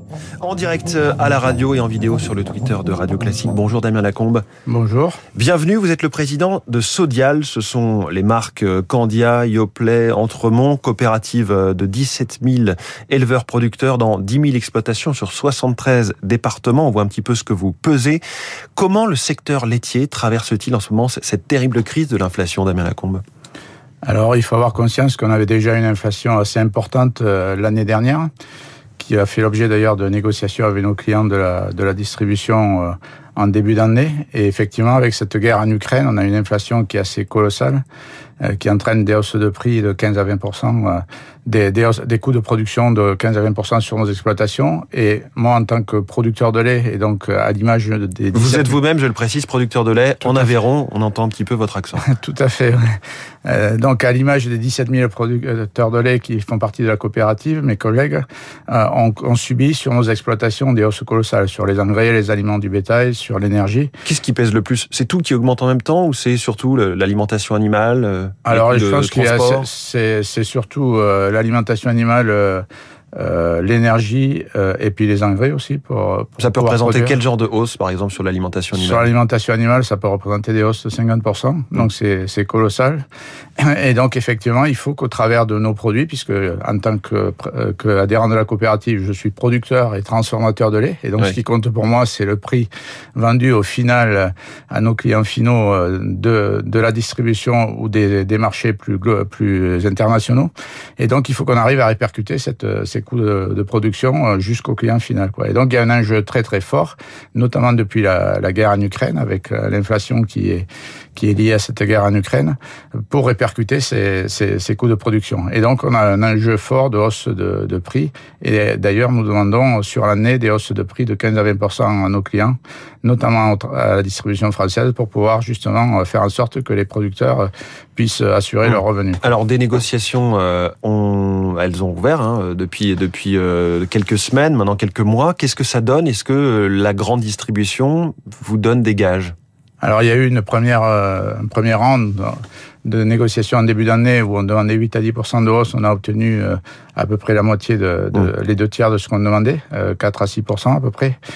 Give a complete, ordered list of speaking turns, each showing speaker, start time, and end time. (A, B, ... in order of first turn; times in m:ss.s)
0:00.4-0:04.5 A
0:04.7-0:05.2 B
0:05.4-0:18.2 A
0:18.8-0:23.2 A
0:24.1-0:28.3 B
0:29.0-0:37.8 B
0:38.4-0:48.8 B
0:48.3-0:52.1 A
0:52.0-1:03.9 B
1:04.0-1:09.7 A
1:08.5-1:12.6 B
1:13.2-1:17.2 B
1:16.4-1:19.1 A
1:18.7-1:23.0 B
1:23.6-1:52.6 B
1:53.1-2:09.2 B
2:08.6-2:19.4 A
2:19.8-2:31.2 B